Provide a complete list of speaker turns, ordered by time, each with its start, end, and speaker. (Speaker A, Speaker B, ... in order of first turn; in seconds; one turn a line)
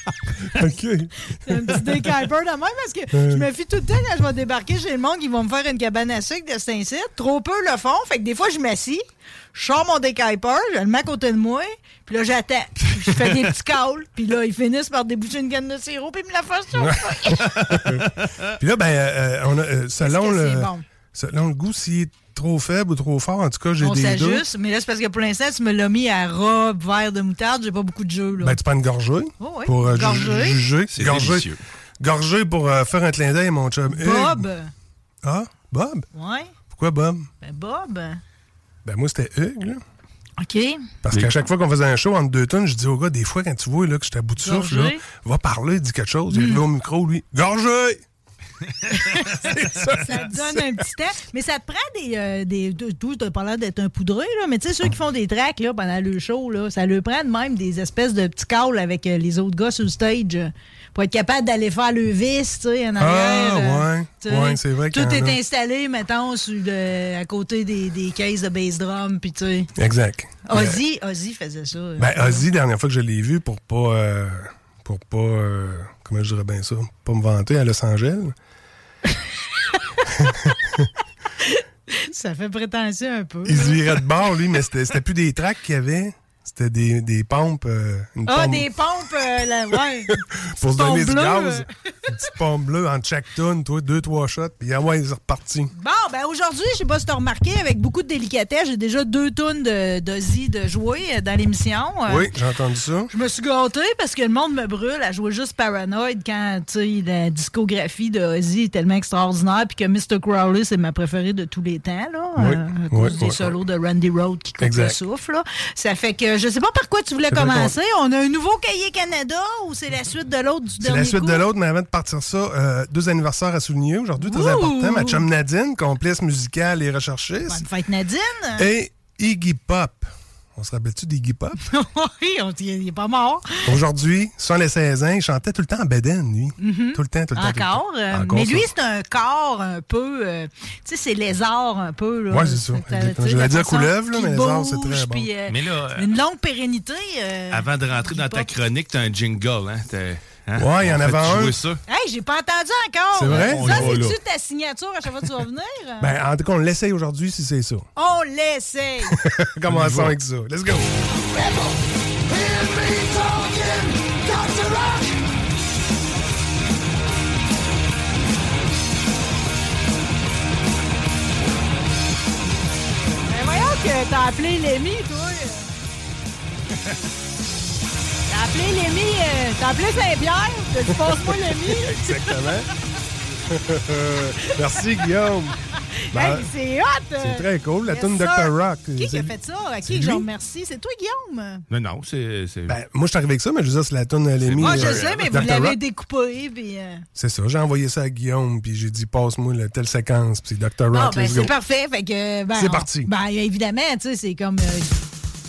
Speaker A: 0.5-2.0
Speaker B: 1.3-17.5
Speaker A: 3.1-3.5
Speaker C: 13.1-13.3
Speaker A: 16.8-24.4
Speaker C: 17.4-18.3
Speaker B: 20.0-20.8
Speaker B: 23.8-28.6
Speaker A: 28.4-31.5
Speaker B: 29.4-30.6
Speaker C: 30.9-31.6
Speaker A: 32.0-34.5
Speaker B: 33.9-34.7
Speaker A: 35.2-36.1
Speaker B: 36.1-36.5
Speaker A: 36.7-37.3
Speaker B: 37.4-38.2
Speaker A: 38.8-39.8
Speaker B: 40.4-40.9
Speaker A: 41.0-48.0
Speaker B: 44.4-45.0
Speaker B: 46.3-46.6
Speaker B: 48.9-69.7
Speaker A: 49.4-50.7
Speaker C: 49.5-49.9
Speaker A: 63.0-65.4
Speaker A: 69.8-70.8
Speaker B: 70.5-72.5
Speaker A: 72.0-78.3
Speaker A: 80.1-80.9
Speaker B: 81.4-84.0
Speaker A: 83.4-88.7
Speaker B: 88.3-91.7
Speaker A: 90.3-95.7
Speaker B: 95.7-102.3
Speaker A: 102.1-103.1
Speaker B: 103.1-121.4
Speaker A: 112.4-113.5
Speaker A: 114.6-115.0
Speaker A: 117.3-117.7
Speaker A: 120.8-127.6
Speaker B: 124.2-125.2
Speaker B: 127.5-128.7
Speaker A: 128.6-131.6
Speaker B: 131.6-133.7
Speaker A: 133.6-138.7
Speaker B: 136.6-148.5
Speaker A: 142.3-145.3
Speaker C: 145.5-146.1
Speaker C: 147.5-151.8
Speaker A: 150.6-151.6
Speaker B: 151.9-156.1
Speaker A: 153.1-153.9
Speaker C: 153.3-154.2
Speaker A: 156.0-157.9
Speaker B: 157.9-159.2
Speaker A: 159.2-160.9
Speaker C: 159.7-160.1
Speaker B: 173.3-175.7
Speaker B: 178.3-182.5
Speaker A: 181.0-182.7
Speaker A: 183.5-185.6
Speaker B: 184.4-185.1
Speaker B: 186.1-191.6
Speaker A: 186.1-186.5
Speaker A: 187.2-189.3
Speaker A: 189.8-190.3
Speaker C: 191.7-192.8
Speaker A: 192.7-195.8
Speaker C: 194.4-195.3
Speaker B: 194.6-197.0
Speaker A: 197.2-201.5
Speaker B: 200.9-204.9
Speaker A: 202.5-203.1